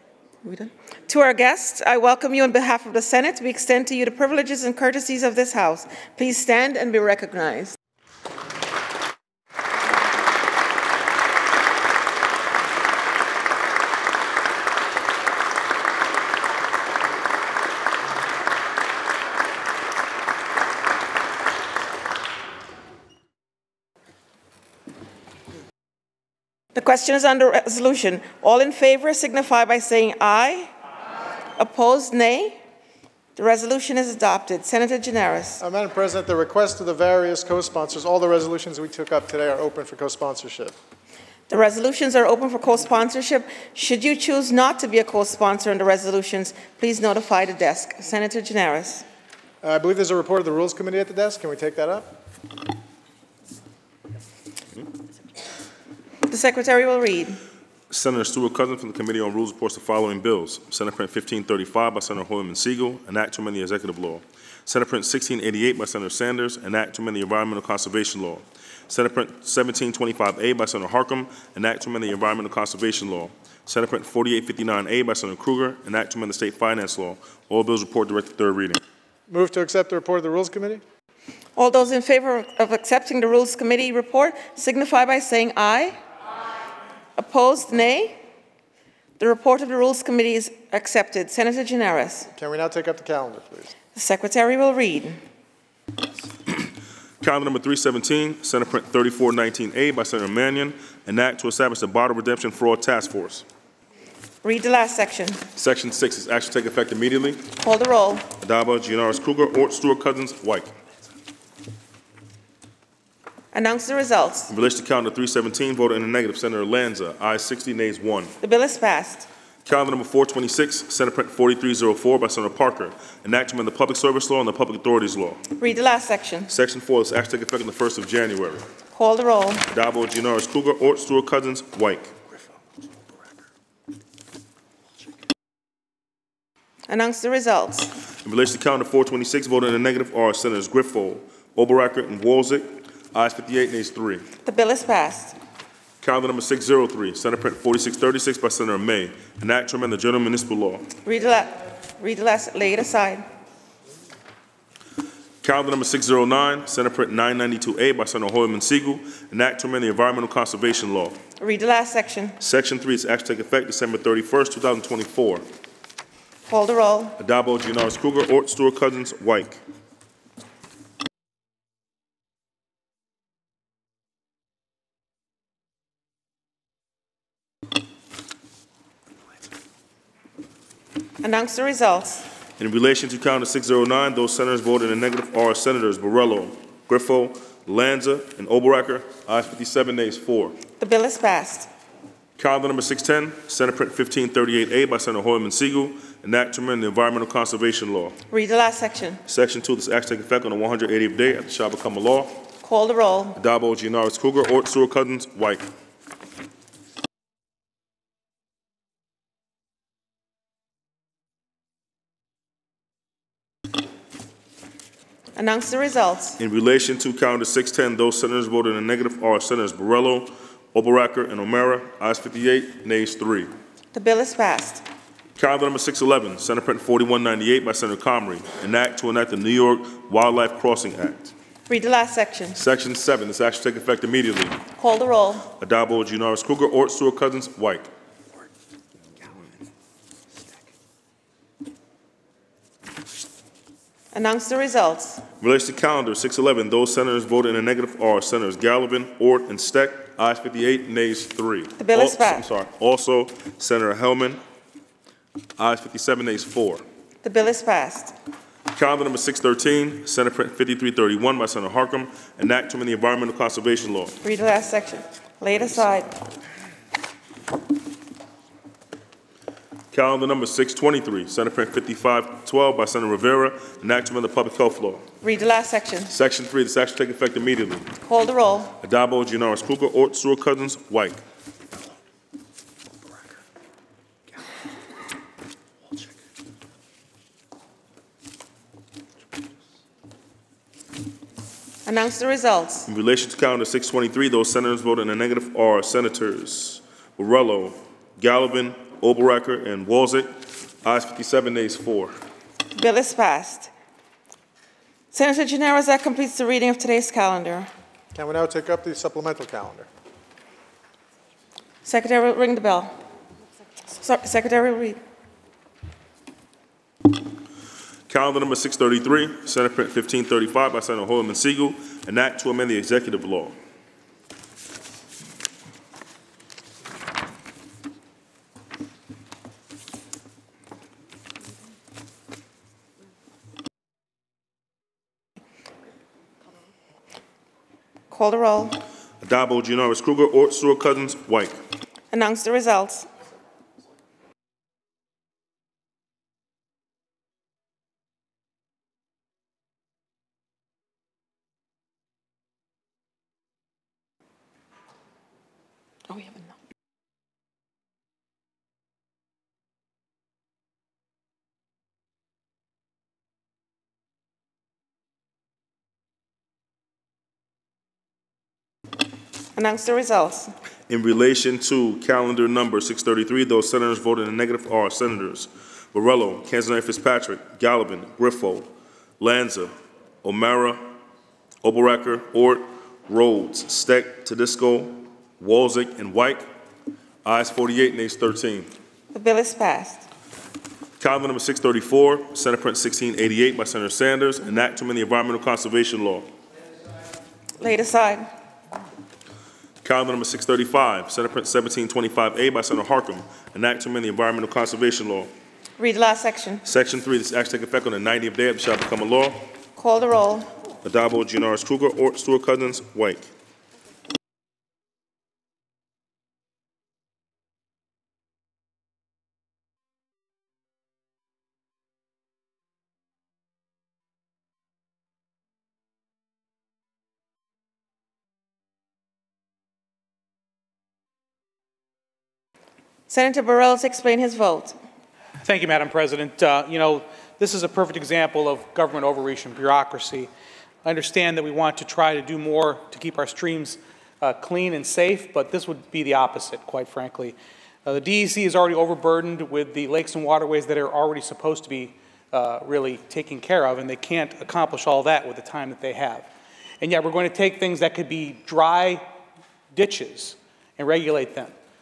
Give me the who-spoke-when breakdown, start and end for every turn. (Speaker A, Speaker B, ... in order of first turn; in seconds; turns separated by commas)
Speaker A: 0.4-7.8, Speaker A: 26.7-30.7, Speaker A: 31.6-32.6, Speaker A: 33.4-35.6, Speaker B: 35.6-40.7, Speaker A: 41.5-49.0, Speaker B: 49.6-52.2, Speaker A: 56.3-57.4, Speaker C: 57.9-78.8, Speaker B: 79.3-80.8, Speaker A: 81.5-86.0, Speaker A: 87.2-88.2, Speaker A: 89.2-92.3, Speaker B: 92.3-93.7, Speaker A: 93.9-95.2, Speaker C: 97.2-103.5, Speaker A: 104.4-105.4, Speaker C: 105.5-107.5, Speaker A: 107.6-108.3, Speaker C: 108.4-110.7, Speaker A: 113.5-114.5, Speaker C: 114.5-118.3, Speaker A: 118.4-119.3, Speaker C: 119.6-125.4, Speaker A: 125.6-126.5, Speaker C: 126.5-128.7, Speaker A: 128.9-129.7, Speaker C: 129.7-132.1, Speaker A: 136.9-137.9, Speaker C: 138.2-144.2, Speaker A: 144.4-145.3, Speaker C: 146.0-150.9, Speaker A: 151.0-153.2, Speaker C: 155.4-161.2, Speaker A: 161.4-162.3, Speaker C: 162.4-165.4, Speaker A: 166.5-167.2, Speaker C: 167.2-169.6, Speaker A: 181.2-182.2, Speaker C: 182.6-190.6, Speaker A: 190.8-191.7, Speaker C: 192.4-198.2, Speaker A: 198.3-199.2, Speaker C: 199.3-202.5, Speaker A: 202.6-203.4, Speaker C: 203.4-205.6, Speaker A: 215.3-216.4, Speaker C: 216.4-223.5, Speaker A: 223.9-224.8, Speaker C: 225.4-231.3, Speaker A: 231.7-232.6, Speaker C: 232.6-234.6, Speaker A: 234.8-235.5, Speaker C: 235.6-237.9, Speaker A: 244.1-245.2, Speaker C: 245.4-254.4, Speaker A: 251.8-252.4, Speaker C: 255.6-256.8, Speaker A: 257.2-258.1, Speaker C: 258.7-264.1, Speaker A: 264.2-266.1, Speaker C: 269.9-275.1, Speaker A: 275.2-276.1, Speaker C: 276.1-277.9, Speaker A: 278.1-278.7, Speaker C: 278.8-281.2, Speaker A: 291.9-292.9, Speaker C: 292.9-302.1, Speaker A: 302.7-303.7, Speaker A: 305.1-307.7, Speaker B: 308.1-309.9, Speaker A: 311.8-313.0, Speaker A: 314.0-315.0, Speaker C: 318.1-323.5, Speaker A: 338.1-338.8, Speaker C: 339.2-341.6, Speaker A: 342.1-343.1, Speaker A: 356.1-356.5, Speaker A: 369.5-370.5, Speaker C: 370.9-378.7, Speaker C: 379.2-379.7, Speaker C: 380.2-380.9, Speaker C: 381.6-386.4, Speaker C: 387.2-388.7, Speaker A: 389.1-390.1, Speaker C: 391.0-396.3, Speaker A: 397.6-398.3, Speaker C: 399.8-405.3, Speaker A: 405.8-406.6, Speaker C: 406.6-409.4, Speaker A: 409.8-410.5, Speaker C: 410.8-413.3, Speaker A: 433.1-434.8, Speaker D: 435.4-440.3, Speaker D: 440.8-447.3, Speaker D: 447.9-459.1, Speaker D: 459.7-461.5